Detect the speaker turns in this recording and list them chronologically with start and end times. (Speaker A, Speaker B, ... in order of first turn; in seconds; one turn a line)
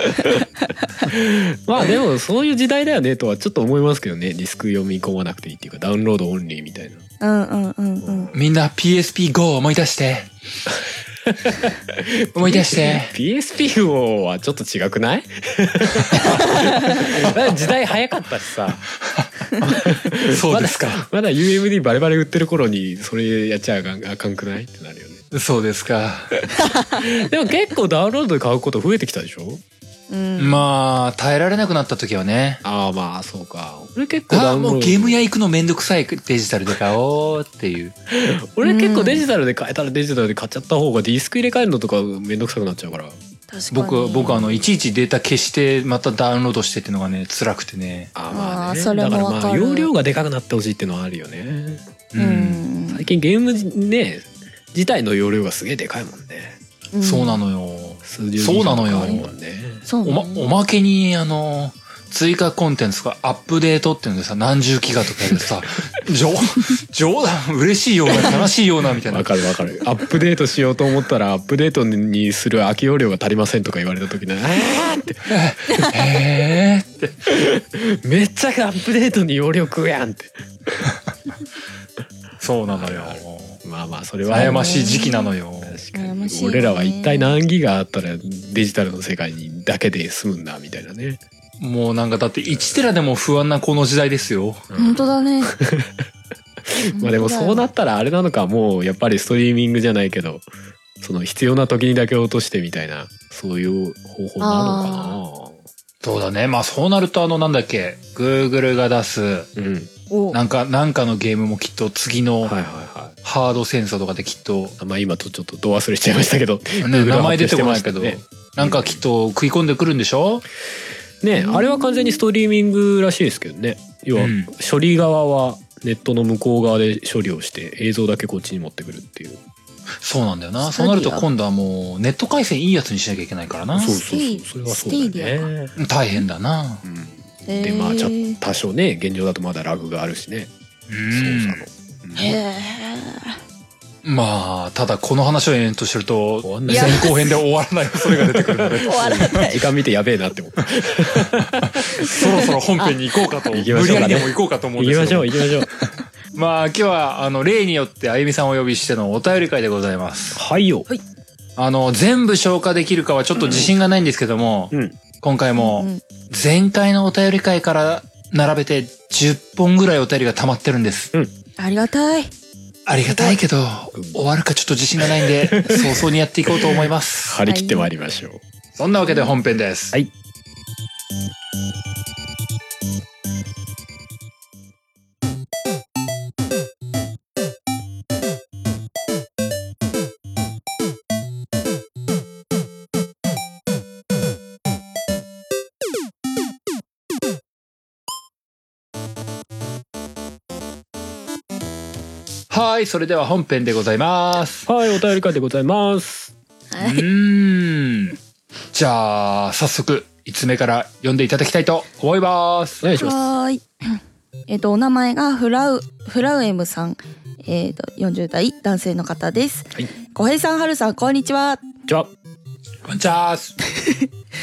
Speaker A: 0.1-0.4
Speaker B: 0.1-0.9
Speaker A: 1.0-7.0
Speaker B: 7.2-8.3
Speaker A: 8.0-8.4
Speaker C: 8.3-10.3
Speaker A: 10.7-18.9
Speaker C: 12.3-13.2
Speaker C: 16.1-16.4
Speaker B: 16.3-17.1
Speaker C: 17.2-17.5
Speaker C: 19.0-21.1
Speaker A: 19.6-25.2
Speaker C: 25.3-26.4
Speaker A: 26.9-29.6
Speaker B: 30.1-30.6
Speaker C: 30.4-32.6
Speaker A: 32.6-35.2
Speaker C: 34.3-37.9
Speaker A: 38.1-43.1
Speaker B: 38.6-39.2
Speaker B: 43.5-44.4
Speaker C: 43.7-48.1
Speaker A: 44.2-44.7
Speaker A: 48.1-51.9
Speaker B: 48.3-49.9
Speaker C: 52.1-52.7
Speaker B: 52.2-53.0
Speaker A: 52.9-56.6
Speaker B: 56.9-57.4
Speaker C: 57.0-59.3
Speaker A: 58.0-59.9
Speaker B: 58.9-59.2
Speaker B: 59.9-60.5
Speaker C: 60.0-69.3
Speaker A: 69.1-75.9
Speaker C: 75.3-77.2
Speaker A: 77.3-80.9
Speaker C: 82.4-83.6
Speaker A: 82.7-85.1
Speaker B: 84.3-85.3
Speaker C: 84.3-85.8
Speaker A: 85.6-91.2
Speaker B: 85.9-87.4
Speaker C: 91.6-94.7
Speaker A: 92.5-92.8
Speaker A: 94.7-96.1
Speaker B: 94.8-95.5
Speaker A: 96.7-100.5
Speaker B: 96.9-97.7
Speaker A: 101.0-105.6
Speaker B: 104.4-105.2
Speaker C: 106.0-109.5
Speaker A: 109.6-109.9
Speaker B: 110.1-110.4
Speaker C: 110.3-112.6
Speaker A: 112.4-113.2
Speaker C: 113.2-114.8
Speaker A: 114.8-119.0
Speaker C: 116.8-120.5
Speaker A: 121.2-129.4
Speaker B: 121.4-122.2
Speaker C: 124.2-124.5
Speaker C: 130.0-134.0
Speaker B: 130.6-131.3
Speaker A: 133.7-135.7
Speaker B: 133.9-135.5
Speaker C: 135.8-136.8
Speaker A: 136.8-140.5
Speaker B: 137.5-138.4
Speaker C: 140.9-141.7
Speaker A: 141.1-142.4
Speaker B: 142.2-143.4
Speaker C: 144.1-149.5
Speaker A: 146.4-147.1
Speaker B: 146.7-147.3
Speaker A: 148.0-152.4
Speaker B: 148.8-149.6
Speaker C: 151.3-160.4
Speaker A: 153.5-155.7
Speaker A: 160.3-160.9
Speaker C: 161.6-171.1
Speaker A: 163.4-163.7
Speaker A: 164.7-165.0
Speaker B: 165.6-166.0
Speaker B: 171.6-172.3
Speaker C: 172.9-177.4
Speaker B: 173.1-173.4
Speaker A: 175.0-178.4
Speaker B: 177.4-177.9
Speaker C: 178.8-180.0
Speaker C: 202.5-204.7
Speaker A: 204.7-206.3
Speaker B: 206.7-207.1
Speaker C: 206.8-208.2
Speaker C: 208.7-212.8
Speaker A: 212.8-213.3
Speaker B: 212.9-221.7
Speaker C: 222.8-223.6
Speaker B: 223.7-224.1